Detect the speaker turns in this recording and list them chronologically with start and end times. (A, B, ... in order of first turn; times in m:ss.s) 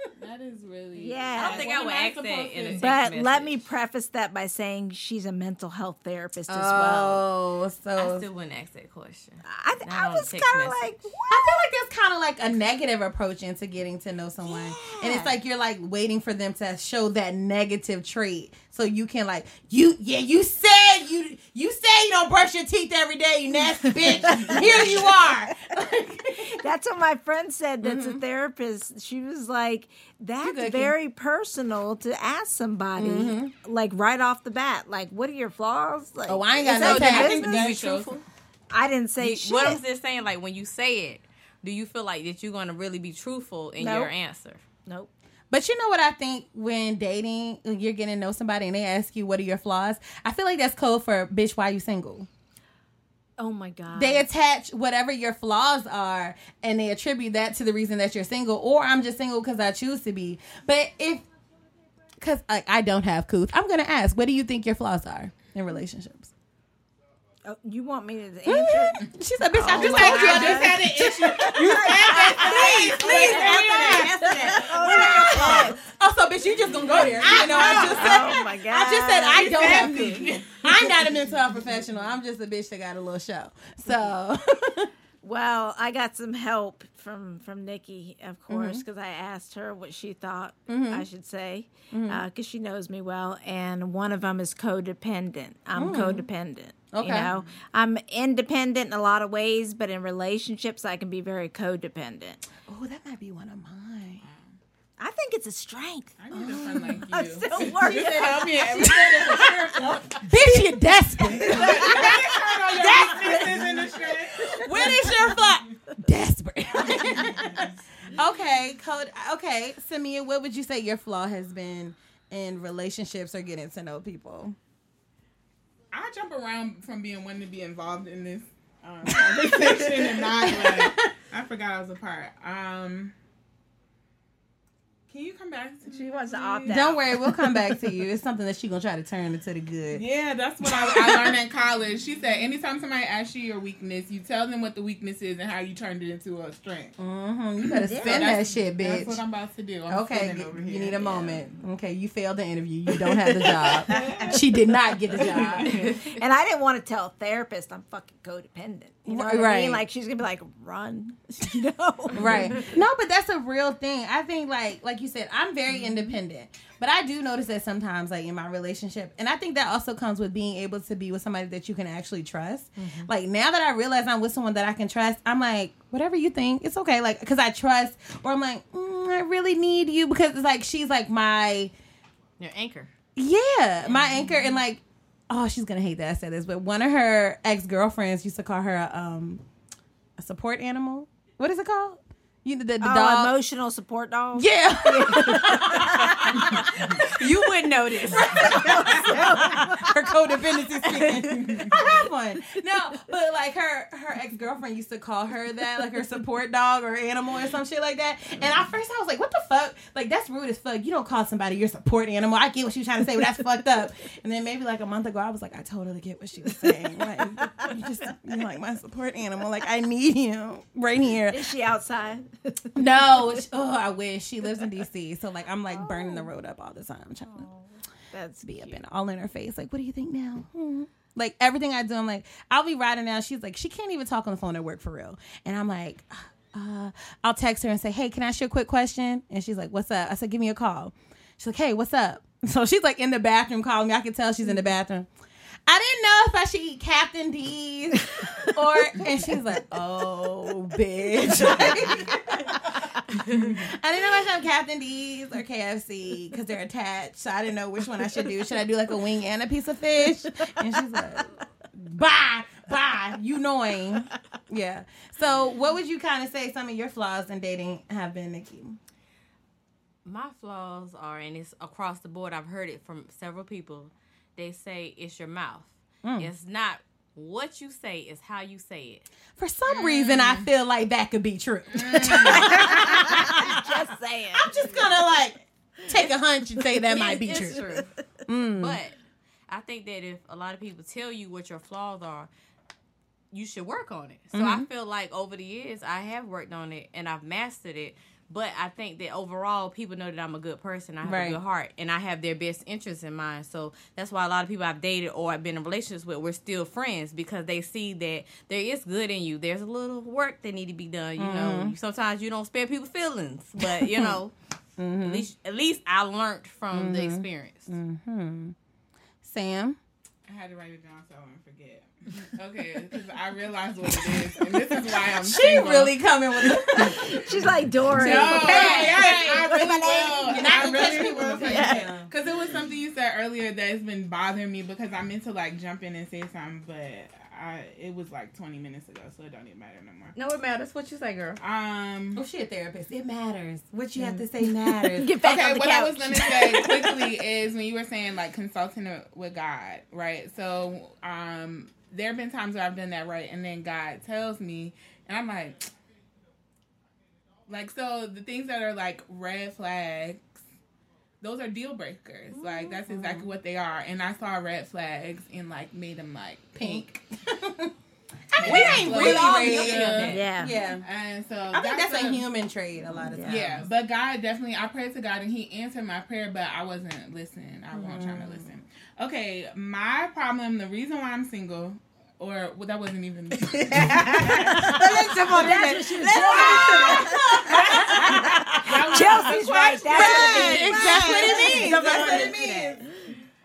0:00.2-0:03.0 A
0:01.0-0:01.7 B
0:01.4-0:03.6 C
0:02.8-0:07.2 B
0:06.5-0:08.3 D
0:08.0-0:11.0 C
0:09.4-0:11.7 B
0:11.3-0:26.6 D
0:14.4-0:15.4 B
0:24.2-0:25.3 B
0:24.3-0:24.8 A
0:26.4-0:37.7 B
0:27.8-0:28.2 D
0:30.4-0:31.0 D
0:33.0-0:33.5 D
0:36.3-0:37.4 D
0:36.7-0:38.2 C
0:36.8-0:38.1 A
0:38.7-0:39.8 B
0:39.2-0:44.6 C
0:43.8-0:44.1 D
0:45.5-0:52.3 D
0:53.4-0:54.2 B
0:53.9-1:01.2 D
1:02.2-1:06.3 D
1:07.4-1:15.8 B
1:08.4-1:24.9 D
1:09.8-1:15.6 A
1:16.7-1:18.4 A
1:17.2-1:20.2 B
1:19.4-1:20.7 A
1:25.2-1:42.4 B
1:28.5-1:28.8 D
1:30.7-1:31.1 D
1:31.9-1:32.2 D
1:35.8-1:36.3 D
1:36.9-1:37.3 D
1:42.6-1:44.2 D
1:44.2-1:44.6 A
1:45.0-1:46.2 B
1:46.2-1:50.3 A
1:46.3-1:49.5 D
1:46.9-1:50.2 B
1:50.2-1:53.8 D
1:51.4-1:55.4 A
1:51.4-1:52.1 B
1:52.8-1:53.7 B
1:54.4-1:57.6 D
1:57.0-1:58.2 A
1:58.2-2:04.6 D
2:05.9-2:13.2 A
2:09.1-2:11.1 D
2:15.1-2:17.1 A
2:15.9-2:17.0 B
2:16.7-2:20.0 D
2:19.9-2:27.0 A
2:20.6-2:21.4 D
2:27.0-2:29.2 D
2:27.6-2:31.4 A
2:27.9-2:28.3 B
2:29.9-2:35.7 D
2:33.6-2:34.2 B
2:33.9-2:34.4 A
2:35.1-2:35.9 A
2:35.8-2:42.7 B
2:35.8-2:36.1 C
2:39.1-2:39.8 D
2:42.1-3:01.7 D
2:52.8-2:53.1 C
3:02.4-3:02.9 C
3:03.2-3:09.4 D
3:03.9-3:04.3 C
3:10.2-3:13.4 D
3:12.8-3:16.8 B
3:14.3-3:41.5 D
3:17.0-3:18.5 C
3:18.4-3:20.1 B
3:21.4-3:21.8 A
3:41.3-3:43.4 B
3:42.8-3:47.5 D
3:45.7-3:46.3 B
3:48.1-3:48.8 B
3:48.4-4:05.1 D
4:05.7-4:12.6 D
4:11.6-4:11.9 B
4:13.1-4:13.6 C
4:13.4-4:28.8 D
4:30.0-4:39.1 C
4:36.0-4:36.3 D
4:39.4-4:47.7 D
4:39.7-4:40.5 A
4:41.7-4:42.6 A
4:42.3-4:44.6 B
4:46.9-4:47.9 C
4:47.4-4:47.8 B
4:48.3-4:48.8 D
4:48.6-4:49.0 C
4:49.5-4:52.3 C
4:53.3-5:14.3 C
4:54.3-4:54.7 D
5:01.0-5:01.4 D
5:11.2-5:11.8 D
5:13.6-5:14.2 D
5:14.8-5:15.3 D
5:15.0-5:17.8 C
5:16.7-5:18.6 D
5:19.2-5:19.8 D
5:20.3-5:26.0 A
5:25.2-5:27.2 D
5:26.8-5:31.8 B
5:27.9-5:32.1 D
5:27.9-5:40.2 A
5:40.2-5:41.4 C
5:41.4-5:42.2 A
5:42.2-5:45.2 D
5:44.9-5:47.0 B
5:45.2-5:55.7 A
5:57.5-6:00.4 A
6:01.2-6:06.9 A
6:02.3-6:02.8 C
6:02.9-6:03.3 D
6:06.6-6:07.7 D
6:08.3-6:10.8 D
6:08.4-6:10.4 C
6:08.4-6:10.2 A
6:10.1-6:10.6 B
6:10.8-6:12.3 A
6:11.5-6:13.7 D
6:13.1-6:13.4 B
6:13.3-6:24.9 A
6:17.8-6:18.5 D
6:23.7-6:32.8 B
6:23.7-6:32.8 D
6:26.4-6:26.9 A
6:27.7-6:32.6 A